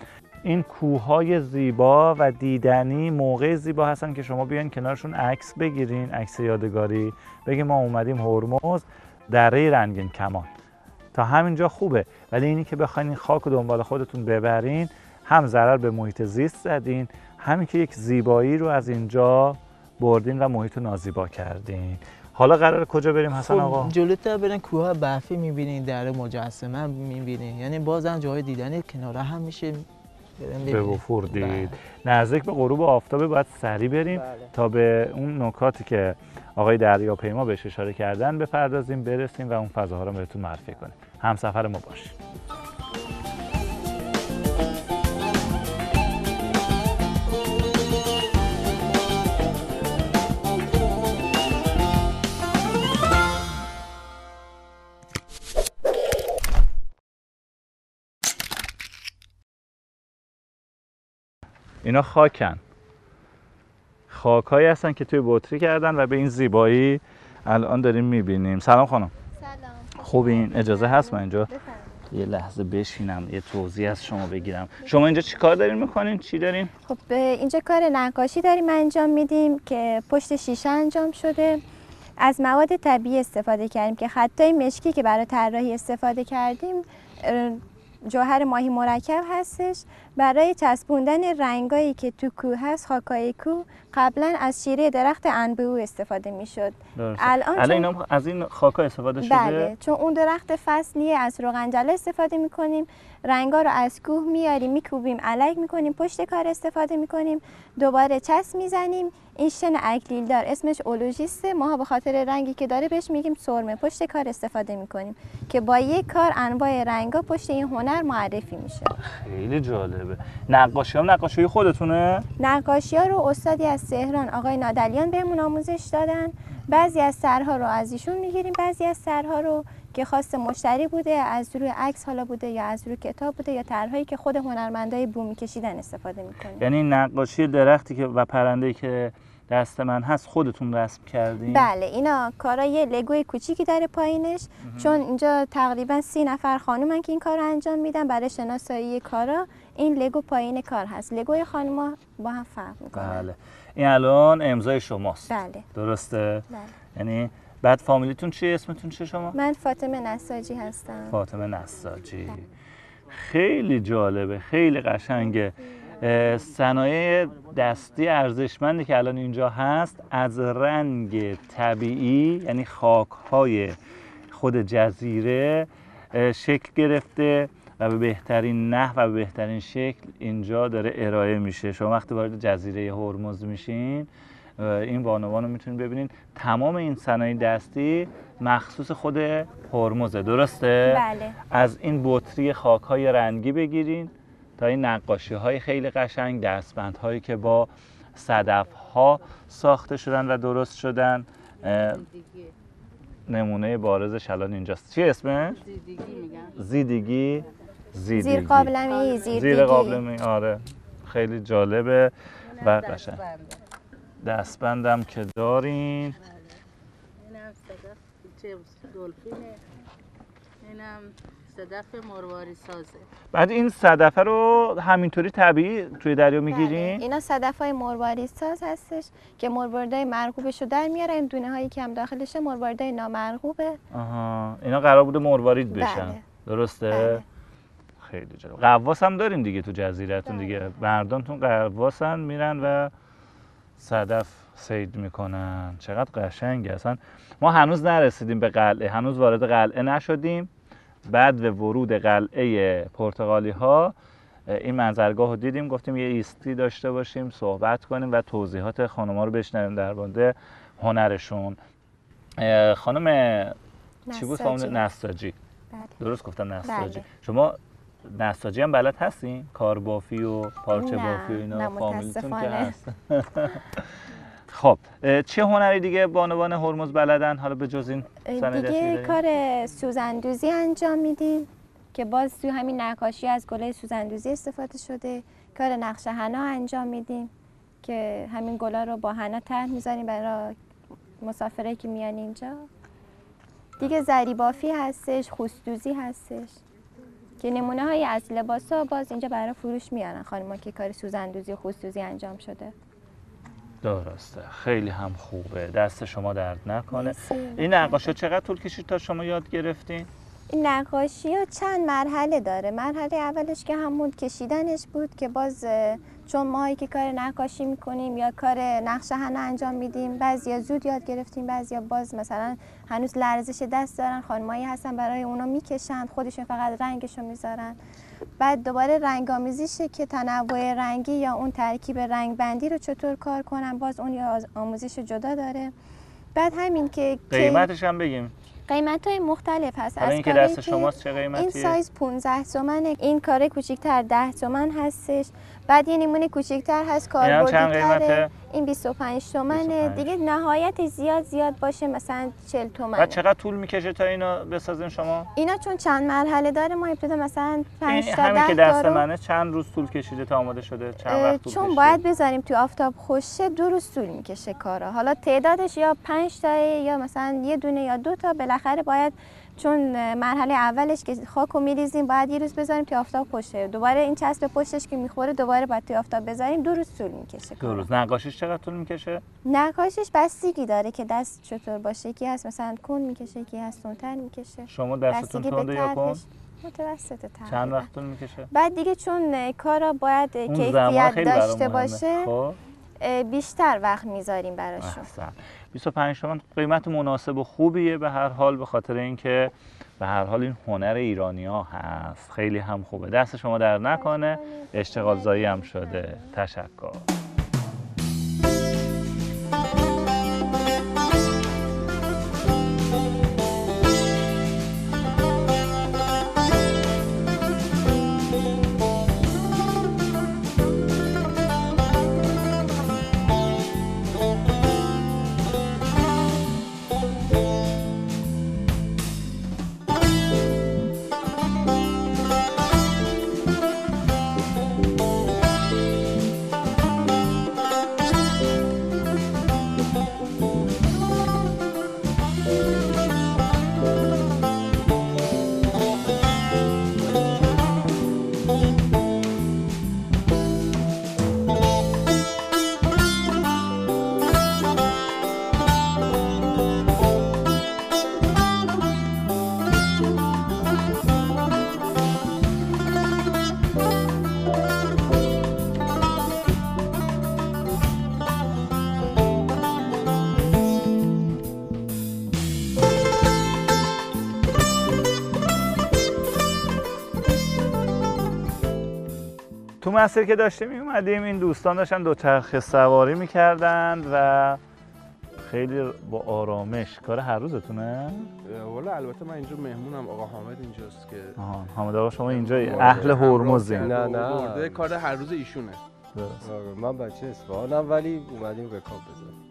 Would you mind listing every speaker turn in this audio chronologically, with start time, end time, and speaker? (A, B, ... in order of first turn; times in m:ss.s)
0:00.4-0:10.5 A
0:11.1-0:23.9 A
0:23.3-0:29.8 B
0:30.4-0:31.7 B
0:30.7-0:42.1 A
0:34.2-0:34.5 B
1:01.8-1:02.6 A
1:04.1-1:09.1 A
1:09.4-1:12.0 C
1:10.0-1:11.5 A
1:12.1-1:16.7 A
1:16.8-1:21.6 C
1:22.2-1:37.9 C
1:37.0-1:39.7 A
1:39.2-1:58.9 C
1:59.1-2:02.3 A
2:02.4-2:16.7 C
2:16.6-2:21.7 A
2:21.5-2:33.2 C
2:24.6-2:25.0 A
2:32.9-2:39.4 A
2:35.3-2:35.7 C
2:39.3-2:41.2 C
2:41.1-2:42.4 A
2:43.1-2:53.8 A
2:54.3-3:22.0 A
3:10.8-3:11.4 C
3:21.6-3:22.5 D
3:23.3-3:25.6 A
3:25.5-3:26.6 D
3:26.6-3:28.7 A
3:28.1-3:30.0 C
3:28.8-3:29.5 D
3:29.3-3:33.2 A
3:32.5-3:33.6 D
3:34.2-3:36.2 A
3:36.2-3:36.5 D
3:37.2-3:39.6 D
3:40.6-3:43.0 D
3:43.3-3:47.0 A
3:46.5-3:53.8 C
3:53.9-3:57.2 A
3:55.7-3:56.2 C
3:56.9-3:57.2 C
3:58.0-4:02.9 A
4:00.2-4:00.6 C
4:03.8-4:10.5 A
4:11.1-4:13.9 A
4:14.5-4:21.6 A
4:22.4-4:23.6 A
4:24.1-4:24.8 C
4:24.1-4:25.4 A
4:25.7-4:26.0 C
4:26.0-4:33.9 A
4:26.6-4:27.0 C
4:30.7-4:32.7 C
4:34.5-4:39.2 A
4:38.2-4:47.3 C
4:47.8-4:50.6 C
4:51.2-4:52.7 C
4:53.8-4:56.6 C
4:57.4-5:02.7 C
5:03.8-5:10.1 A
5:06.9-5:08.1 C
5:10.5-5:27.8 C
5:28.4-5:35.7 C
5:36.3-5:37.7 C
5:37.3-5:38.3 A
5:38.7-5:53.2 C
5:40.0-5:41.8 A
5:47.2-5:48.3 A
5:49.5-5:50.1 A
5:53.0-5:55.3 A
5:55.4-5:59.0 C
5:57.9-6:02.0 A
6:01.0-6:17.9 C
6:17.6-6:19.2 A
6:19.4-6:27.9 C
6:24.7-6:26.2 A
6:27.5-6:28.5 A
6:28.5-6:32.3 C
6:30.5-6:32.6 A
6:33.0-6:35.1 C
6:34.8-6:47.1 A
6:43.9-6:46.3 C
7:59.8-8:04.6 A
8:05.4-8:08.3 A
8:08.4-8:11.4 E
8:11.4-8:13.9 A
8:12.3-8:15.8 E
8:12.4-8:14.9 F
8:16.1-8:16.5 A
8:16.4-8:19.3 F